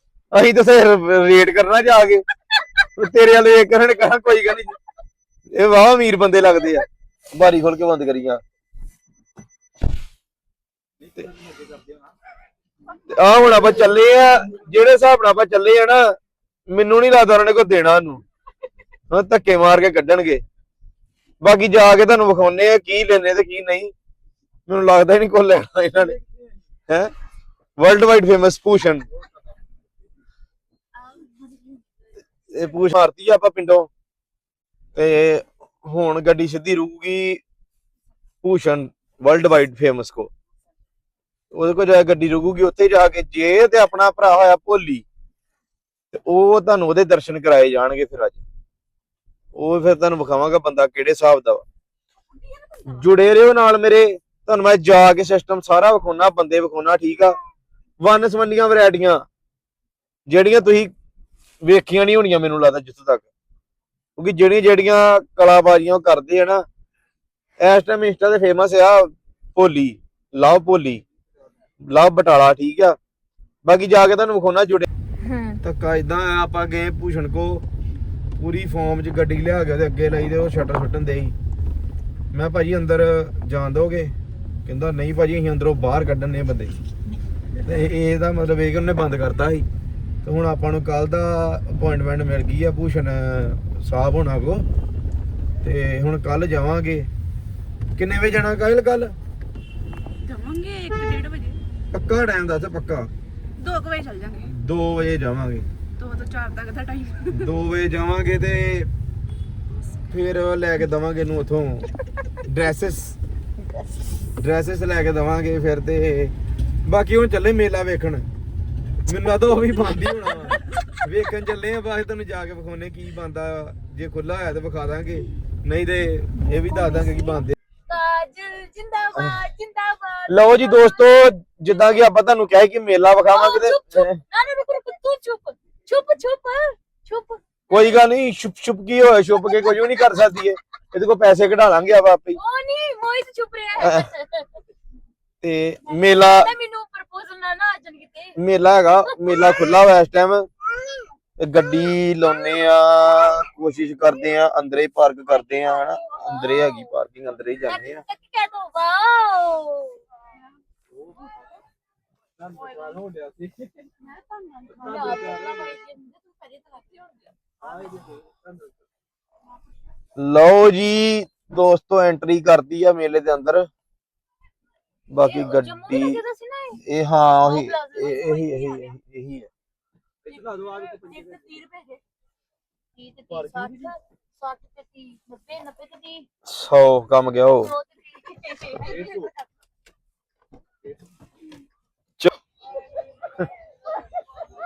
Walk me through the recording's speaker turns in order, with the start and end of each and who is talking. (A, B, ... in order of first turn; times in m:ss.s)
0:00.3-0:02.2 A
0:03.0-0:04.8 A
0:05.5-0:08.4 A
0:13.1-0:16.1 A
0:16.7-0:18.2 A
0:19.1-0:20.4 A
0:21.4-0:23.9 A
0:24.7-0:26.2 A
0:27.8-0:29.0 A
0:31.0-0:31.8 B
0:32.5-0:33.9 A
0:34.9-0:37.4 A
0:38.4-0:40.3 A
0:41.5-0:45.0 A
0:46.1-0:48.4 A
0:49.5-0:51.6 A
0:52.3-0:53.0 B
0:52.8-0:57.4 A
0:58.0-0:59.2 A
1:00.3-1:00.9 A
1:01.6-1:03.3 A
1:04.2-1:06.6 A
1:07.6-1:11.0 A
1:11.8-1:13.0 A
1:13.6-1:14.9 A
1:15.6-1:17.6 A
1:18.4-1:21.4 A
1:22.3-1:24.1 A
1:24.6-1:26.7 A
1:27.6-1:29.6 A
1:30.2-1:34.6 A
1:35.6-1:37.1 A
1:38.0-1:39.1 A
1:40.2-1:41.6 C
1:41.9-1:43.1 A
1:43.6-1:44.5 C
1:44.4-1:45.6 A
1:46.0-1:47.5 C
1:47.3-1:48.9 A
1:50.1-1:51.9 A
1:52.4-1:53.2 A
1:54.4-1:56.3 A
1:56.8-1:58.2 A
1:59.0-2:07.5 A
2:06.5-2:11.1 B
2:10.3-2:14.2 A
2:13.3-2:18.0 B
2:17.7-2:22.4 A
2:19.5-2:19.8 B
2:22.3-2:24.6 B
2:23.8-2:24.1 A
2:25.4-2:26.5 A
2:25.9-2:28.4 B
2:28.4-2:30.5 A
2:29.0-2:29.7 B
2:31.4-2:38.0 A
2:32.4-2:33.4 B
2:35.3-2:36.9 B
2:37.6-2:40.0 B
2:42.4-2:43.7 D
2:44.0-2:47.3 B
2:50.2-2:53.7 A
2:55.1-2:56.2 A
2:55.2-2:56.8 B
2:56.8-2:59.5 A
2:57.4-2:59.0 B
3:00.3-3:02.0 B
3:00.4-3:01.1 D
3:03.0-3:06.2 B
3:03.5-3:03.9 D
3:06.4-3:07.7 A
3:07.6-3:09.3 B